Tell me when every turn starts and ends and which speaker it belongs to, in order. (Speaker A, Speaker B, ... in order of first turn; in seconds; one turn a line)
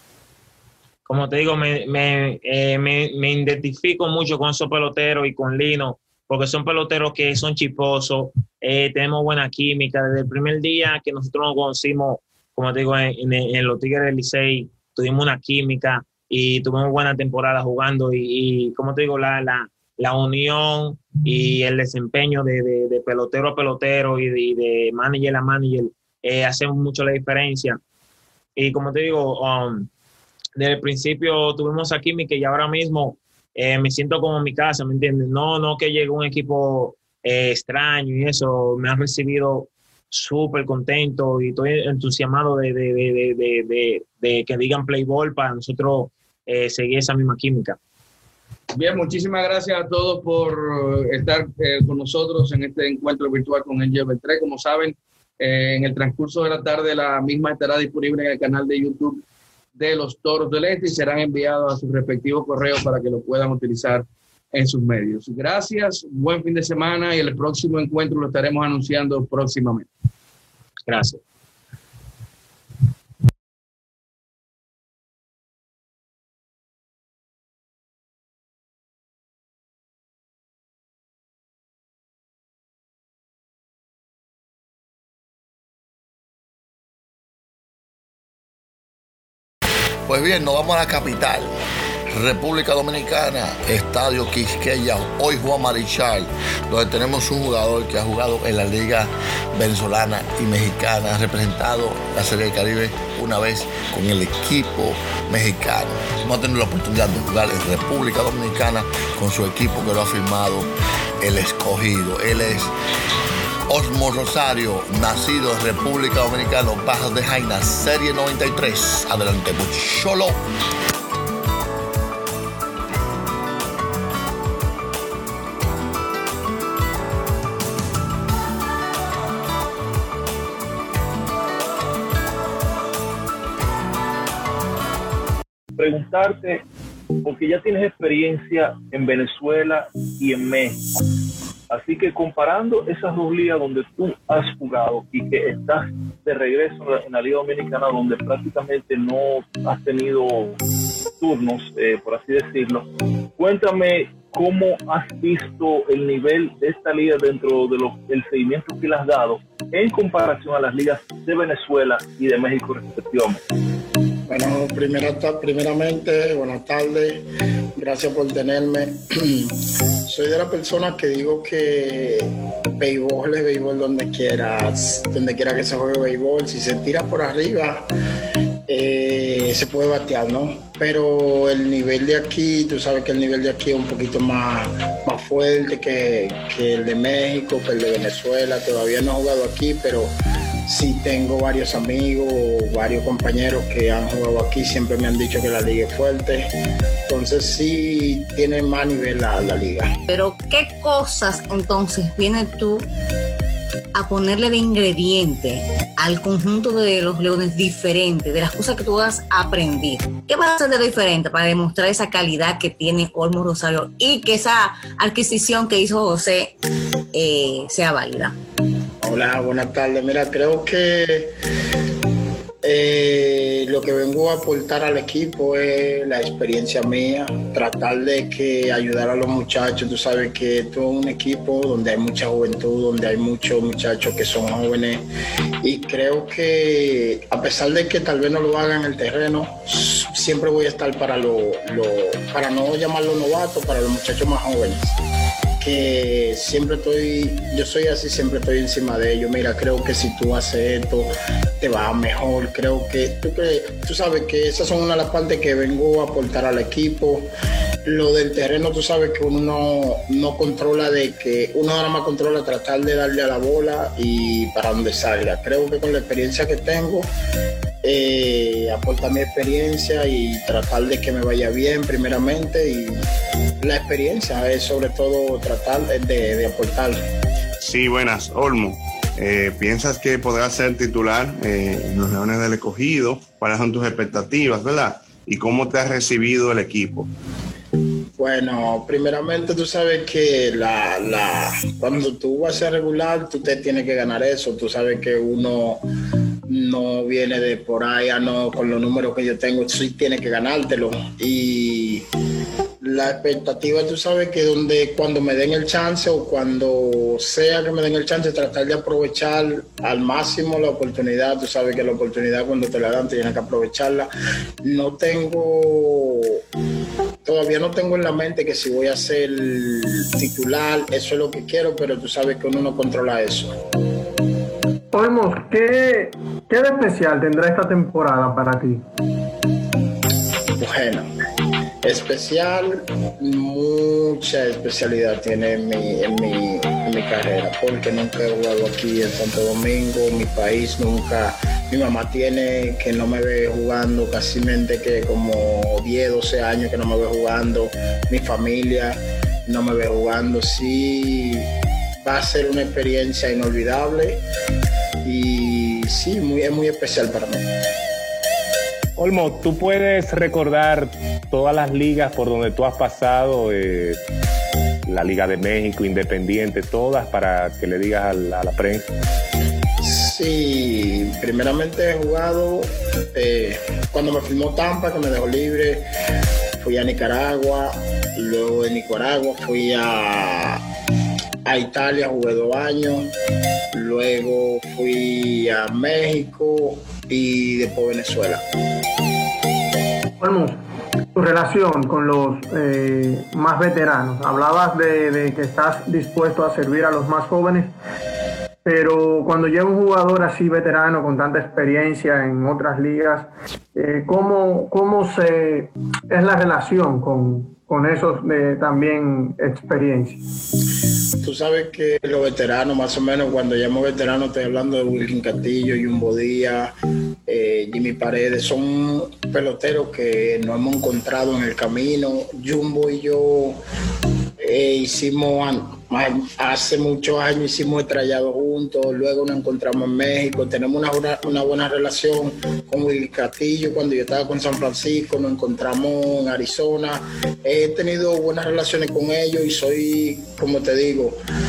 Speaker A: 1.1-27.8
Speaker A: 28.6-29.9
Speaker A: 30.6-47.8
Speaker B: 48.7-59.2
Speaker B: 59.8-69.9
Speaker A: 70.9-71.2
Speaker C: 90.1-91.5
Speaker C: 92.1-110.7
Speaker C: 111.2-112.7
Speaker C: 113.7-120.4
Speaker D: 135.8-136.6
Speaker D: 137.2-140.8
Speaker D: 141.7-150.6
Speaker D: 151.2-152.8
Speaker D: 153.4-163.4
Speaker E: 164.3-167.2
Speaker E: 167.8-169.5
Speaker E: 170.1-177.8
Speaker E: 178.7-190.1
Speaker E: 190.7-196.5
Speaker E: 197.1-199.9
Speaker F: 200.1-202.8
Speaker F: 203.9-216.5
Speaker F: 217.1-218.3
Speaker E: 219.0-221.3
Speaker E: 222.6-235.0
Speaker E: 235.6-244.9
Speaker E: 245.6-257.3
Speaker E: 257.9-267.1
Speaker E: 267.8-273.1
Speaker E: 273.6-277.0
Speaker G: 277.6-287.1
Speaker E: 288.2-295.8
Speaker E: 296.5-302.0
Speaker E: 302.8-314.1
Speaker E: 314.6-316.4
Speaker E: 317.2-323.5
Speaker H: 324.9-328.8
Speaker E: 330.6-331.1
Speaker E: 331.8-351.5
Speaker E: 352.0-354.2
Speaker E: 355.0-357.4
Speaker I: 359.0-364.0
Speaker I: 364.9-368.8
Speaker E: 369.8-375.8
Speaker E: 376.6-380.6
Speaker E: 381.4-383.1
Speaker E: 383.7-388.4
Speaker H: 390.2-390.6
Speaker H: 391.1-397.7
Speaker H: 398.6-410.2
Speaker E: 411.2-416.7
Speaker E: 417.3-423.6
Speaker E: 424.4-441.2